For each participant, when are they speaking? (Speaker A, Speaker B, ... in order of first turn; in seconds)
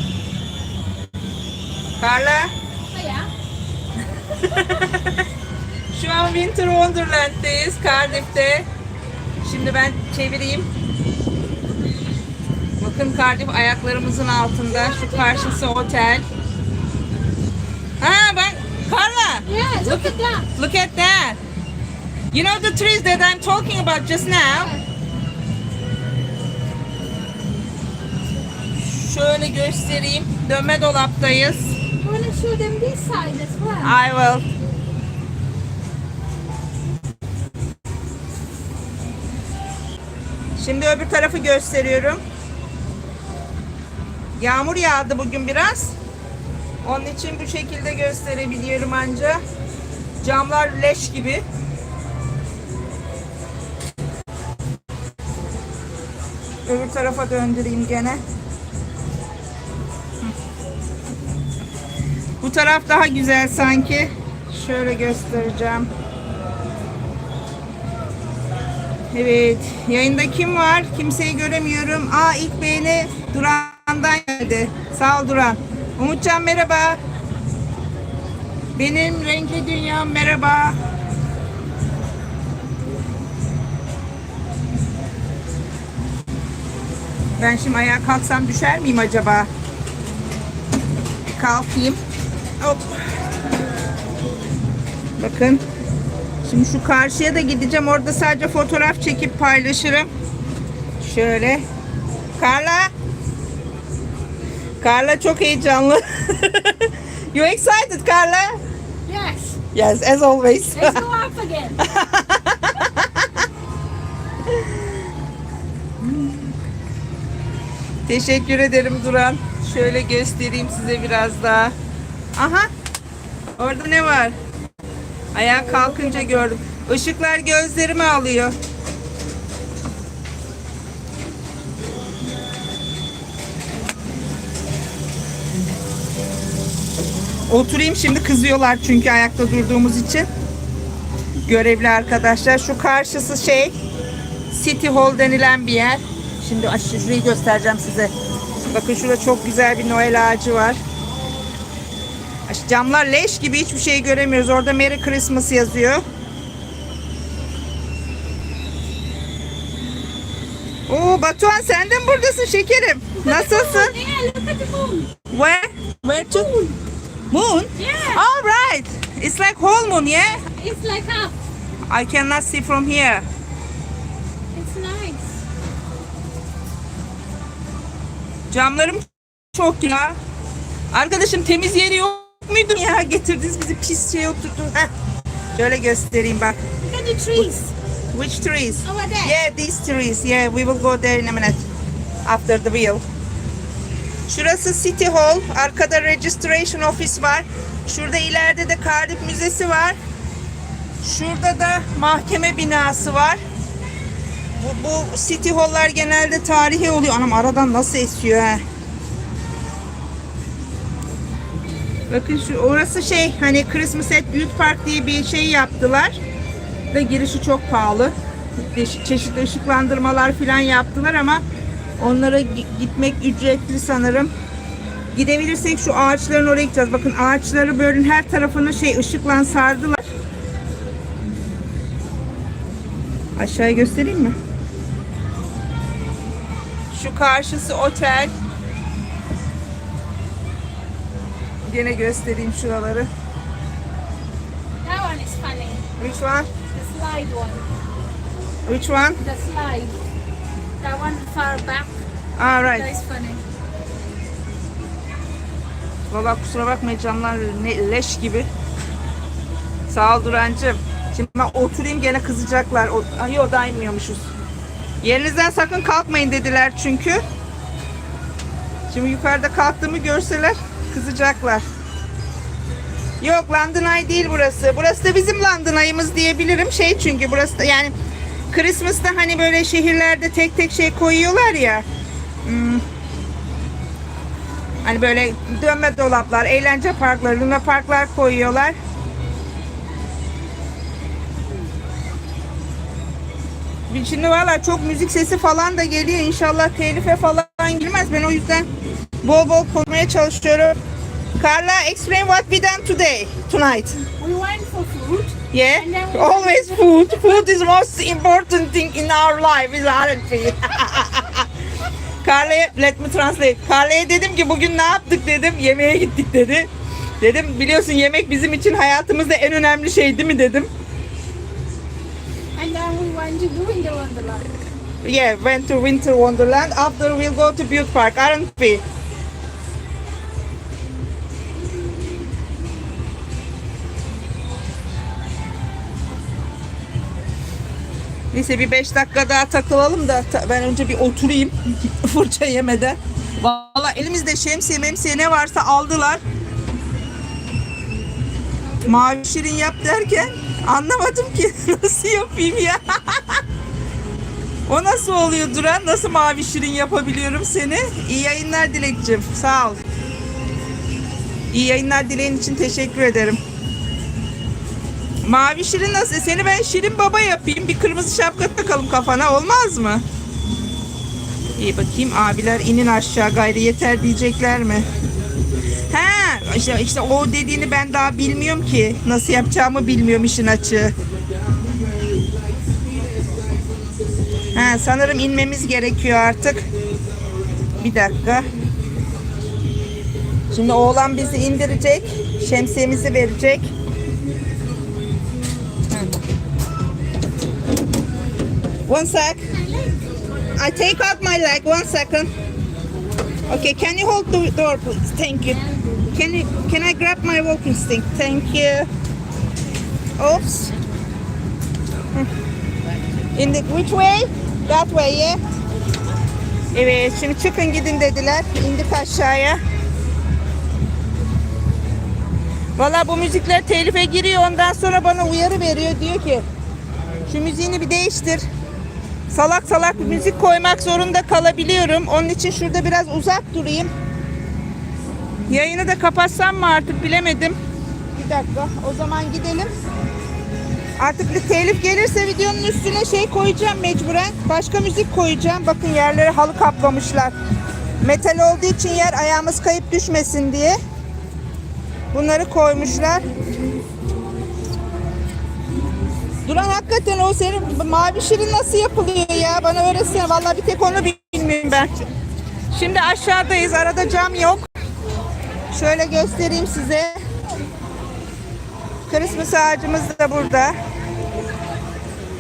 Speaker A: 2.0-2.5, 4.4-5.1, 5.9-8.7, 9.4-10.7, 12.8-16.3, 18.0-21.4, 22.3-24.7, 28.8-31.7, 33.8-34.4, 40.6-42.2, 44.4-46.0, 46.8-49.4, 50.2-51.4, 56.6-58.2, 62.4-65.9, 69.1-77.0, 78.8-80.8, 87.4-89.5, 91.3-92.0, 92.6-93.0, 95.2-95.6, 96.5-100.1, 101.0-101.6, 102.4-102.9, 104.8-108.5, 109.7-111.0, 111.8-113.3, 118.1-121.8, 122.4-122.7, 123.6-124.3, 125.3-128.6, 137.5-140.3, 141.4-143.8, 144.5-148.1, 148.6-150.8, 152.5-156.0, 160.9-163.9, 165.3-166.5, 167.3-170.4, 171.9-173.2, 178.5-180.2, 180.9-184.9, 185.6-186.6, 188.1-191.6, 192.2-193.0, 194.3-200.0, 201.0-203.4, 204.6-208.6, 212.1-216.2, 216.9-221.4, 222.0-224.3, 225.2-230.1, 233.4-234.4, 236.9-238.3, 241.7-243.1, 246.0-246.5, 248.7-249.2, 252.4-252.9, 256.1-258.5, 259.9-264.3, 265.0-267.2, 268.9-271.6, 273.2-277.9, 278.5-281.9, 282.4-282.8, 284.8-288.8, 293.9-298.7, 299.2-300.8, 301.4-304.0, 305.5-311.5, 312.2-316.7, 317.2-320.7, 325.0-328.8, 338.3-346.2, 348.8-353.4, 354.7-359.8, 361.5-363.4, 365.2-370.0, 371.6-374.9, 375.9-380.9, 384.5-386.6, 387.8-388.5, 390.5-393.7, 395.9-396.2, 398.9-399.4, 400.6-402.3, 403.5-408.9, 410.2-410.7, 413.4-415.4, 416.7-419.6, 422.8-426.4, 427.3-428.5, 429.3-433.9, 435.5-437.6, 438.1-439.7, 441.0-447.4, 448.0-450.8, 452.1-453.2, 456.5-461.9, 462.7-464.7, 465.7-467.2, 469.1-470.8
Speaker B: 2.9-3.3, 14.7-15.6, 19.5-20.5, 32.0-34.0, 109.1-109.6, 110.7-111.8, 125.7-126.5, 163.2-165.1, 166.1-166.8, 167.8-168.2, 170.3-171.4, 174.5-175.3, 186.8-187.7, 188.8-189.4, 244.8-245.8, 246.7-247.7, 249.2-249.9, 250.8-251.9, 252.7-253.4, 304.2-307.2, 322.6-324.5